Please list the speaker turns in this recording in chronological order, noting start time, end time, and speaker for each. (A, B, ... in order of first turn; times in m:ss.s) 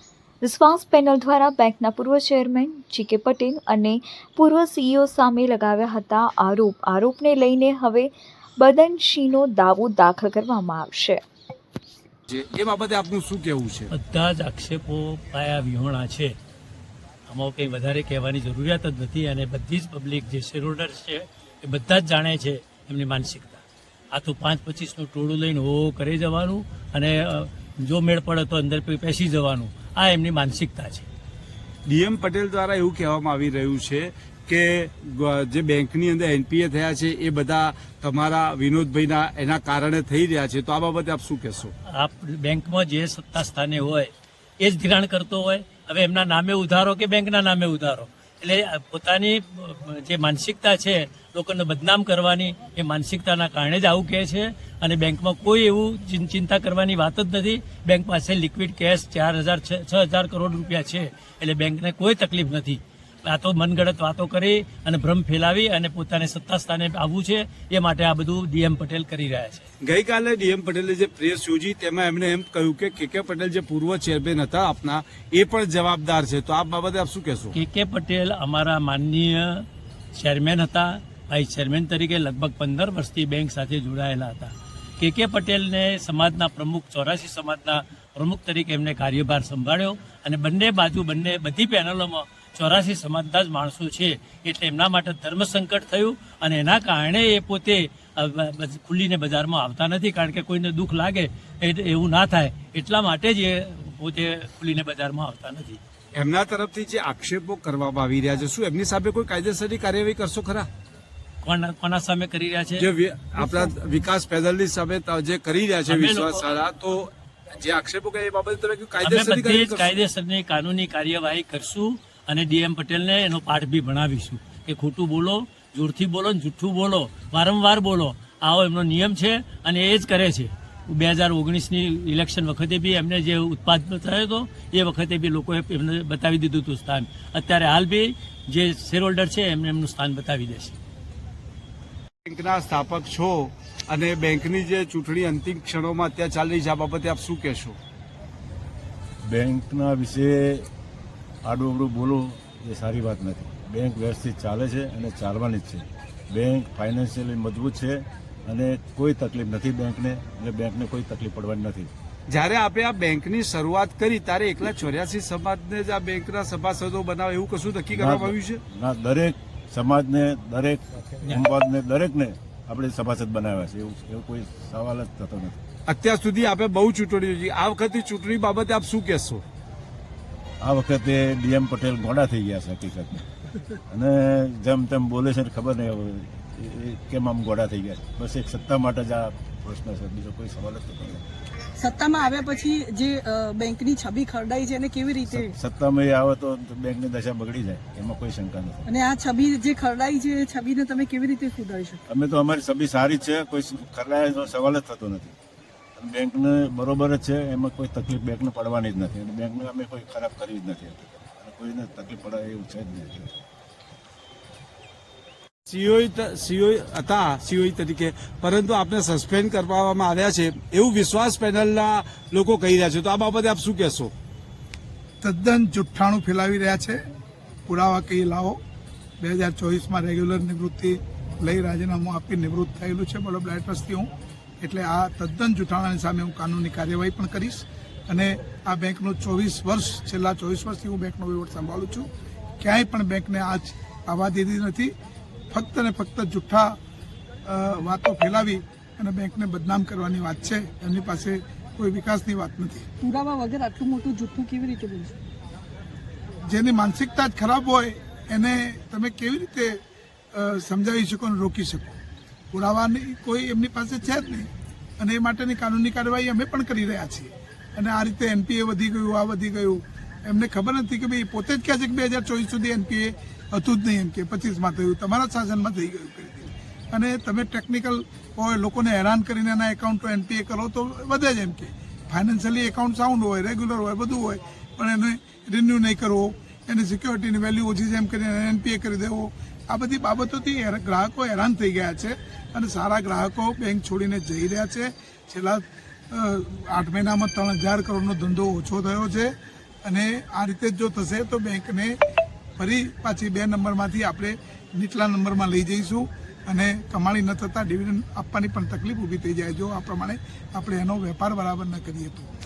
0:00.4-0:11.2 A
0:12.3-0:13.9 B
0:13.9-0:16.3 C
0:17.3-0:31.1 C
0:31.9-0:41.7 B
0:41.9-1:09.7 C
1:09.8-1:17.6 B
1:17.5-1:45.8 C
1:46.2-1:50.7 B
1:51.4-1:52.9 C
1:52.8-2:00.0 B
1:53.4-1:53.7 C
1:55.9-1:56.5 C
1:59.0-2:20.8 C
2:22.3-2:27.8 B
2:29.2-2:30.7 D
2:31.4-2:41.9 D
2:42.3-2:48.6 B
2:47.9-2:55.6 D
2:55.9-2:59.4 B
3:00.6-3:03.2 D
3:03.9-3:11.3 D
3:11.8-3:15.5 E
3:15.3-3:18.8 D
3:18.9-3:22.0 E
3:22.1-3:25.4 D
3:26.0-3:33.4 D
3:35.7-3:44.1 B
3:45.2-3:47.0 F
3:47.7-3:48.6 F
3:49.2-3:54.1 F
3:54.6-4:02.1 F
4:02.6-4:04.9 F
4:05.5-4:06.8 F
4:07.4-4:12.9 F
4:13.0-4:15.2 E
4:16.5-4:19.8 F
4:20.3-4:22.0 F
4:22.5-4:59.3 F
4:59.8-5:02.0 F
5:02.6-5:12.3 F